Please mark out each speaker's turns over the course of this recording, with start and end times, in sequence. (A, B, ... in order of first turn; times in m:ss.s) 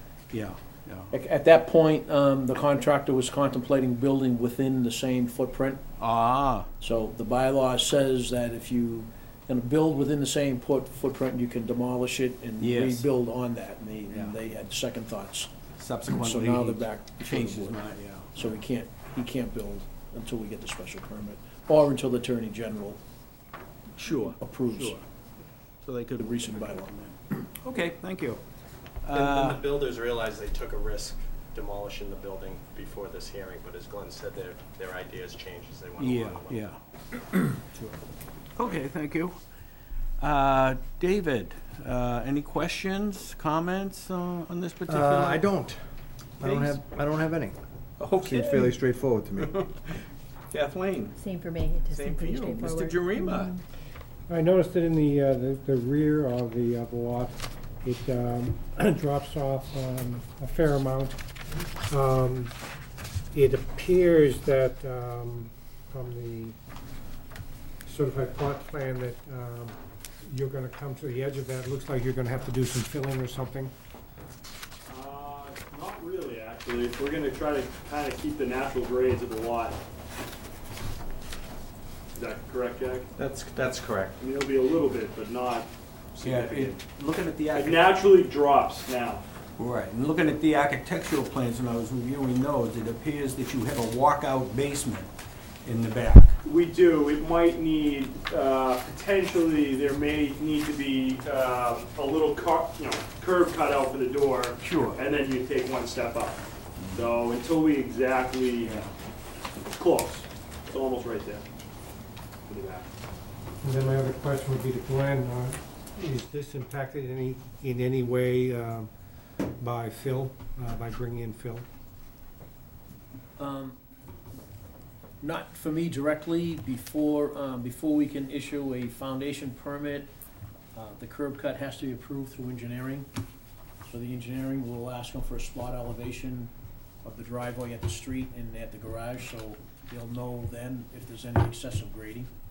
0:00.3-0:01.1 A
0:01.1-0:05.8 B
0:06.0-0:06.7 A
0:06.8-0:15.5 B
0:12.6-0:13.1 A
0:14.1-0:14.4 A
0:15.8-0:18.3 A
0:16.1-0:17.8 B
0:18.4-0:23.0 B
0:24.0-0:25.0 A
0:24.1-0:25.0 B
0:25.8-0:28.4 A
0:26.2-0:26.9 B
0:29.0-0:29.7 A
0:29.1-0:36.6 C
0:36.0-0:36.8 A
0:37.3-0:38.0 A
0:38.6-0:39.3 A
0:40.2-0:45.5 A
0:44.9-0:45.8 D
0:46.4-0:47.6 D
0:46.4-0:46.8 A
0:48.0-0:48.8 A
0:48.2-0:49.5 D
0:49.4-0:50.0 A
0:50.5-0:51.2 A
0:51.2-0:53.6 E
0:51.9-0:53.6 A
0:54.3-1:01.2 F
1:01.9-1:02.5 F
1:03.3-1:06.6 F
1:07.9-1:09.8 F
1:10.3-1:13.7 F
1:14.9-1:19.8 G
1:22.2-1:23.1 G
1:23.2-1:24.2 C
1:24.2-1:26.8 G
1:26.2-1:27.9 A
1:27.5-1:29.2 G
1:29.6-1:35.1 A
1:35.6-1:36.4 A
1:36.4-1:48.8 G
1:44.6-1:45.0 A
1:48.6-1:48.9 A
1:49.7-1:51.4 G
1:52.5-1:52.9 G
1:53.6-1:58.9 F
1:59.6-2:01.6 F
2:03.4-2:03.8 B
2:05.2-2:10.1 B
2:10.8-2:13.1 B
2:13.9-2:16.5 B
2:17.0-2:22.3 B